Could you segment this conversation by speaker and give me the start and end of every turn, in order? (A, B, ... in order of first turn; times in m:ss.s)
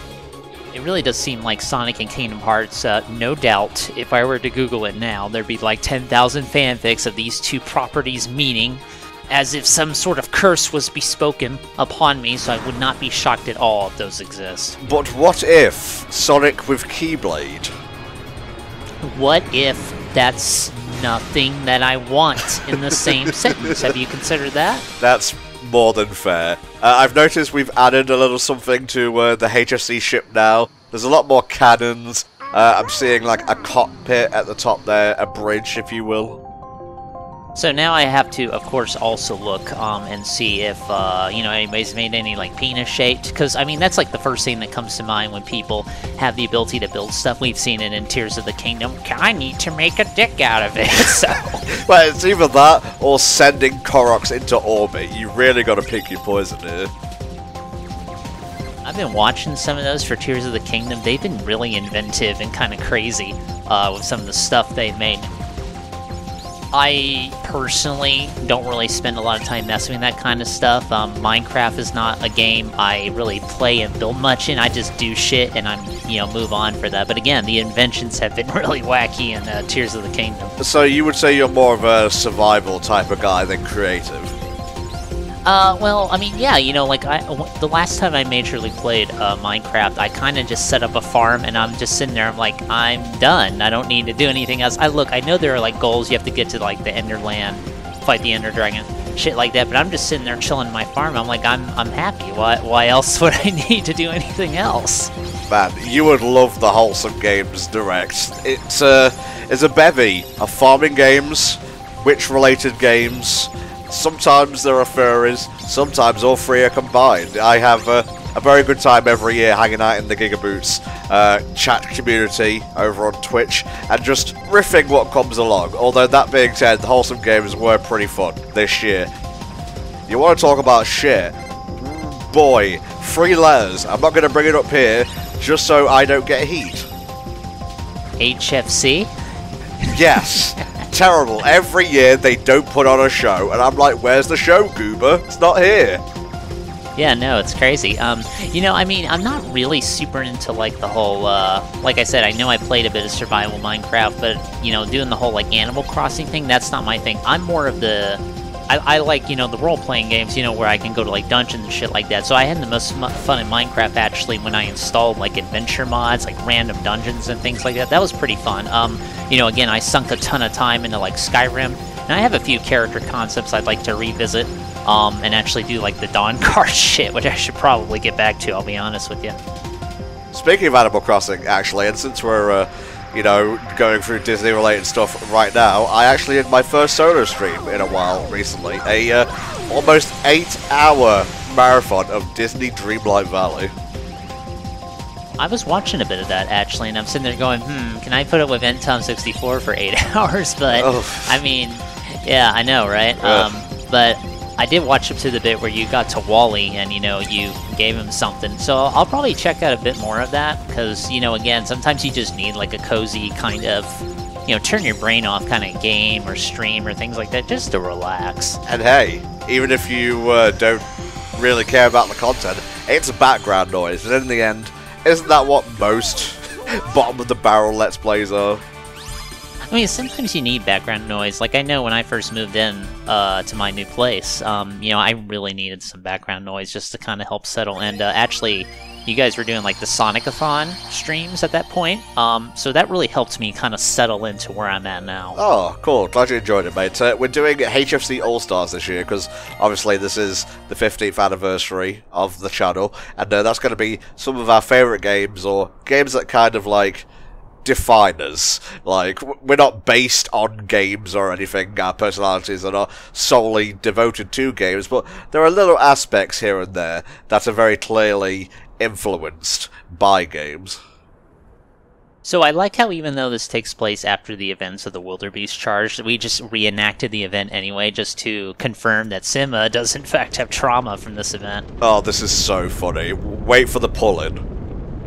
0:00.7-0:14.8 A
0:14.8-0:17.7 B
0:19.0-0:24.8 A
0:22.7-0:24.0 B
0:25.0-0:36.4 B
0:37.5-0:51.6 A
0:51.7-0:56.9 B
0:58.8-1:05.3 A
1:06.7-1:20.5 A
1:20.6-1:24.3 B
1:25.4-1:45.1 A
1:45.5-2:09.1 B
2:10.1-2:16.9 B
2:18.2-2:19.1 A
2:19.8-2:20.7 A
2:19.9-2:26.0 B
2:27.0-2:59.4 A
3:00.3-3:13.7 B
3:15.4-3:38.6 A
3:20.7-3:21.4 B
3:23.2-3:23.5 B
3:38.7-3:48.6 B
3:49.7-4:05.4 A
4:05.4-4:17.1 B
4:17.6-4:30.8 B
4:32.2-4:41.6 A
4:41.8-4:44.4 B